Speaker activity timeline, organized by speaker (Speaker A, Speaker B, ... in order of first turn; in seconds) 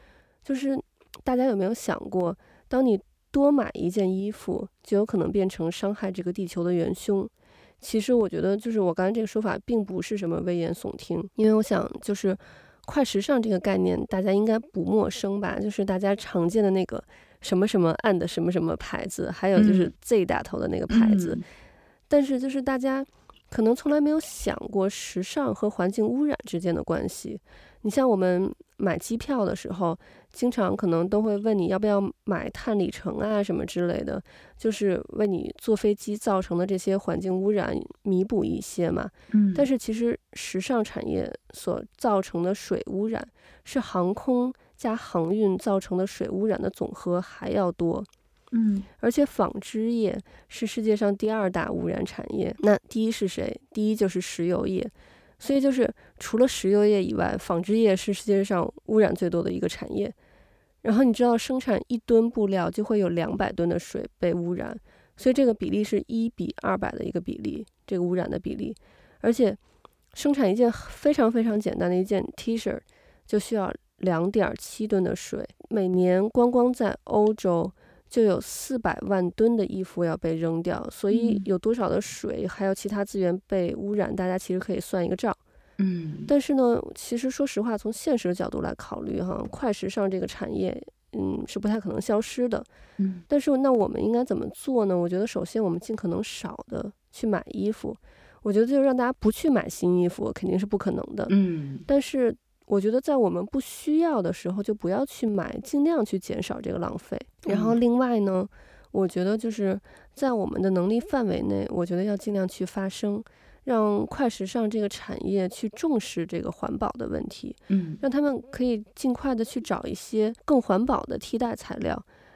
Speaker A: 0.5-21.4, 22.1-48.1, 49.0-60.1, 60.8-69.6, 70.1-85.4, 86.3-92.7, 93.3-101.3, 101.9-122.0
Speaker B: 19.6-19.9, 20.9-21.4, 39.3-39.7, 48.5-48.9, 81.1-81.5, 85.8-86.3, 93.0-93.2, 101.3-101.9, 107.5-107.8, 117.7-118.0